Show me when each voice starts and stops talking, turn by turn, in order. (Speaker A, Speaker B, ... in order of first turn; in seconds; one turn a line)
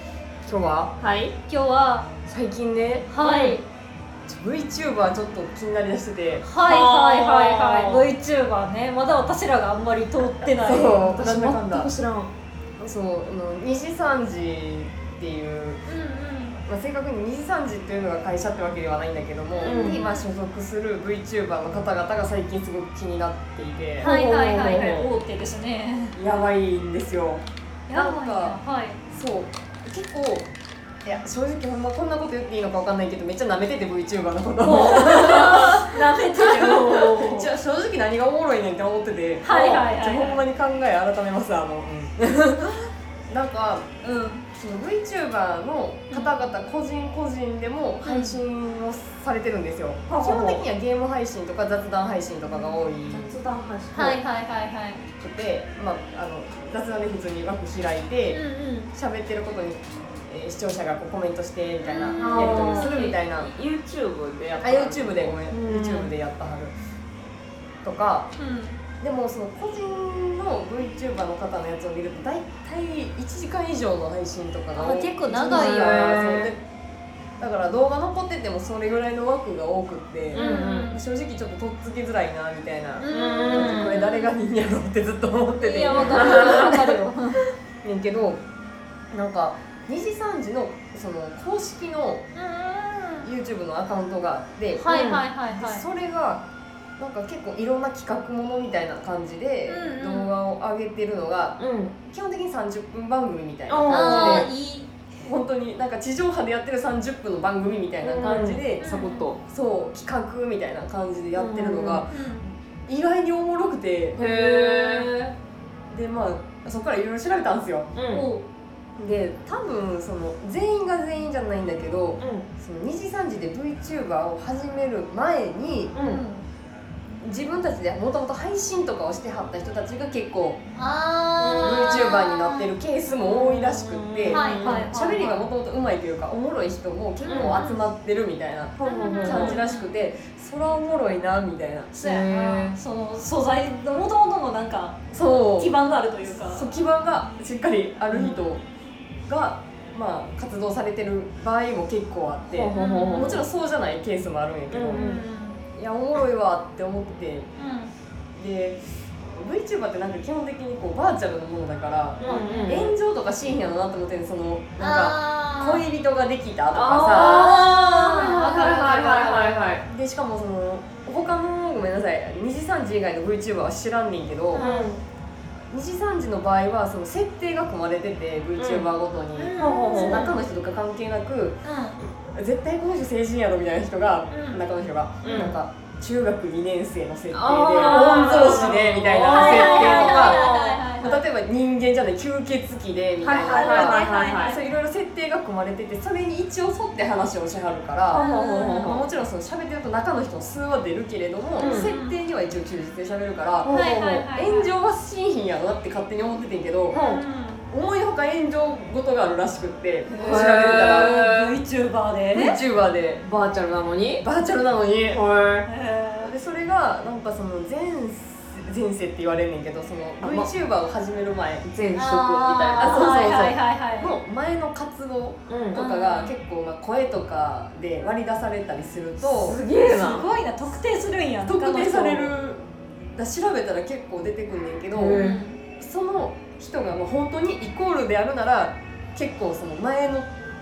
Speaker A: 0.4-0.9
Speaker B: 1.0-1.3
Speaker C: 1.5-2.1
Speaker A: 2.3-3.1
Speaker C: 3.1-3.6
Speaker B: 3.2-3.6
Speaker A: 4.3-6.4
Speaker C: 6.4-11.0
Speaker B: 6.6-8.1
Speaker A: 10.5-11.9
Speaker B: 11.0-12.3
Speaker A: 12.8-15.8
Speaker C: 15.9-16.6
Speaker A: 16.6-24.1
Speaker C: 19.6-20.2
Speaker B: 19.6-20.0
Speaker B: 24.0-25.1
Speaker C: 24.0-26.1
Speaker A: 26.1-28.6
Speaker C: 27.9-29.0
Speaker A: 29.1-30.5
Speaker A: 31.0-42.7
Speaker C: 34.6-37.5
Speaker B: 34.9-35.6
Speaker C: 39.4-40.4
Speaker A: 43.3-43.9
Speaker C: 44.0-44.5
Speaker A: 44.5-53.3
Speaker C: 48.0-48.4
Speaker B: 50.1-50.6
Speaker B: 53.1-54.2
Speaker C: 53.9-55.0
Speaker A: 55.2-58.4
Speaker C: 58.3-58.9
Speaker A: 58.9-63.5
Speaker C: 61.8-63.2
Speaker B: 62.2-66.1
Speaker A: 64.6-66.7
Speaker A: 67.8-68.3
Speaker C: 68.4-68.8
Speaker A: 69.0-76.6
Speaker C: 74.7-76.1
Speaker B: 75.5-76.5
Speaker A: 77.4-87.1
Speaker B: 80.3-80.9
Speaker C: 80.3-81.0
Speaker C: 83.0-84.3
Speaker B: 83.1-84.0
Speaker C: 85.6-87.4
Speaker B: 85.9-86.8
Speaker A: 87.8-88.4
Speaker A: 89.1-92.3
Speaker C: 92.3-93.3
Speaker A: 93.2-96.4
Speaker C: 94.8-95.8
Speaker B: 94.9-95.3
Speaker A: 97.0-104.5
Speaker C: 99.7-100.3
Speaker B: 101.6-101.9
Speaker B: 103.7-104.5
Speaker C: 103.9-104.9
Speaker A: 105.2-112.3
Speaker B: 108.0-109.4
Speaker C: 108.8-109.3
Speaker B: 111.3-112.0
Speaker C: 112.1-112.5
Speaker A: 112.8-115.2
Speaker B: 114.2-115.3
Speaker A: 115.9-117.9
Speaker B: 117.9-118.3
Speaker C: 118.1-118.4
Speaker A: 119.0-125.9
Speaker B: 122.2-122.5
Speaker B: 125.9-126.2
Speaker C: 126.0-126.5
Speaker A: 127.2-130.6
Speaker C: 130.7-132.7
Speaker B: 131.4-132.2
Speaker A: 131.6-141.9
Speaker B: 133.1-134.8
Speaker C: 134.3-135.4
Speaker B: 137.2-137.8
Speaker B: 138.8-139.6
Speaker C: 138.8-139.9
Speaker C: 141.9-146.7
Speaker B: 142.0-142.8
Speaker A: 145.1-145.8
Speaker A: 146.4-148.6
Speaker B: 148.1-148.4
Speaker A: 149.3-155.2
Speaker B: 152.5-153.4
Speaker C: 152.7-153.4
Speaker B: 154.7-155.2
Speaker C: 154.9-155.6
Speaker A: 155.7-157.5
Speaker C: 157.6-157.9
Speaker A: 158.4-158.8
Speaker A: 159.3-167.6
Speaker B: 162.2-162.9
Speaker C: 162.2-162.7
Speaker C: 164.8-165.8
Speaker B: 166.7-169.8
Speaker C: 167.2-169.7
Speaker A: 168.5-168.9
Speaker A: 169.8-174.7
Speaker C: 174.5-175.0
Speaker B: 174.6-175.0
Speaker A: 175.7-181.6
Speaker B: 178.6-178.9
Speaker C: 179.4-180.3
Speaker B: 179.6-180.3
Speaker C: 181.6-182.0
Speaker A: 182.3-207.0
Speaker C: 184.3-184.6
Speaker B: 185.2-185.6
Speaker C: 185.2-185.5
Speaker B: 187.3-190.5
Speaker C: 187.8-191.2
Speaker B: 193.2-194.6
Speaker C: 193.3-194.6
Speaker B: 198.1-199.0
Speaker C: 198.1-198.9
Speaker B: 201.6-201.9
Speaker C: 201.6-202.2
Speaker B: 203.6-203.9
Speaker C: 203.7-204.7
Speaker B: 206.9-207.2
Speaker C: 206.9-207.7
Speaker A: 207.7-211.2
Speaker C: 210.1-212.6
Speaker B: 210.2-211.5
Speaker A: 212.3-213.2
Speaker B: 213.2-214.2
Speaker A: 214.2-215.2
Speaker B: 215.1-215.7
Speaker C: 215.7-216.3
Speaker A: 216.2-221.6
Speaker B: 220.2-220.5
Speaker B: 221.6-223.2
Speaker C: 221.9-224.2
Speaker A: 222.8-229.6
Speaker B: 225.5-225.8
Speaker C: 225.7-226.3
Speaker B: 229.3-230.3
Speaker C: 229.8-232.3
Speaker A: 231.4-232.6
Speaker A: 233.1-235.2
Speaker B: 234.9-235.4
Speaker C: 235.1-235.6
Speaker A: 235.8-240.3